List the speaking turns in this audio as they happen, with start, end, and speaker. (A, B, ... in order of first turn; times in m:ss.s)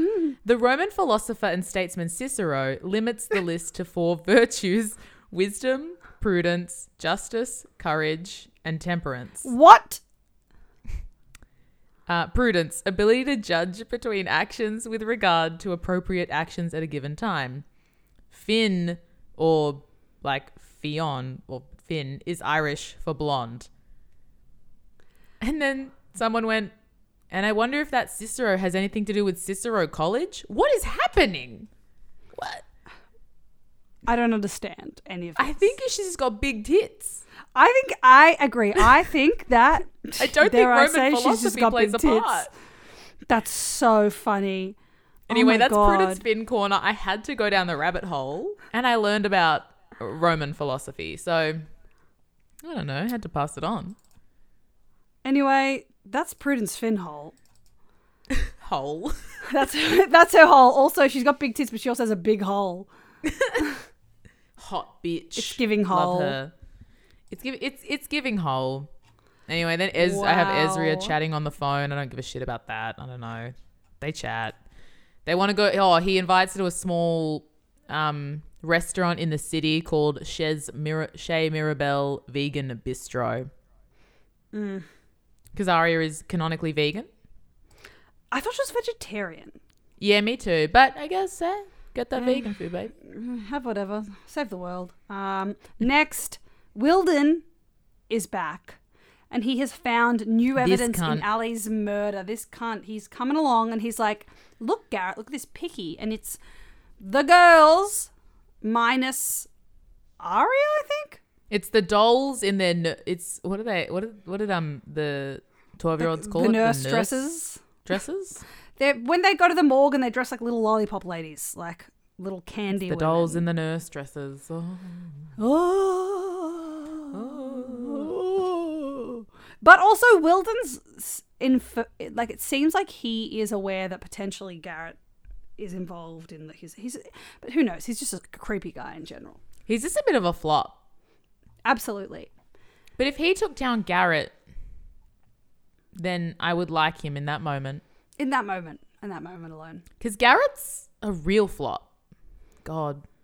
0:00.4-0:09.5 A
0:09.4-0:10.0 B
0:12.1-0:17.6 A
0:18.3-0:23.7 A
0:25.4-0:26.7 A
0:27.3-0:31.7 A
0:32.3-0:32.6 A
0:34.0-0:35.8 B
0:35.4-0:37.2 A
0:37.5-0:42.5 B
0:40.2-0:42.5 A
0:43.3-0:44.8 B
0:45.3-0:51.6 A
0:45.3-0:46.2 B
0:52.6-0:54.0 A
0:55.2-0:57.3 B
0:58.3-0:59.2 A
0:59.4-1:02.9 B
1:03.2-1:03.6 A
1:04.6-1:06.5 A
1:05.4-1:06.4 B
1:07.3-1:08.9 A
1:09.5-1:14.6 A
1:10.0-1:11.2 B
1:15.2-1:23.5 A
1:24.5-1:24.8 B
1:25.5-1:27.1 A
1:28.3-1:29.6 B
1:30.0-1:32.9 A
1:32.2-1:37.4 B
1:38.1-1:38.8 B
1:39.3-1:46.4 B
1:40.6-1:41.2 A
1:47.0-1:48.1 B
1:48.6-1:49.5 B
1:50.2-1:51.2 B
1:51.5-1:57.2 A
1:56.0-1:57.6 B
1:57.8-1:58.4 A
1:58.8-2:03.4 B
2:02.7-2:05.3 A
2:05.4-2:15.0 B
2:07.1-2:08.1 A
2:15.6-2:19.4 B
2:19.7-2:20.8 A
2:21.6-2:22.3 B
2:23.0-2:24.3 A
2:25.9-2:27.8 A
2:28.2-2:29.8 B
2:30.0-2:31.9 A
2:32.6-2:33.0 A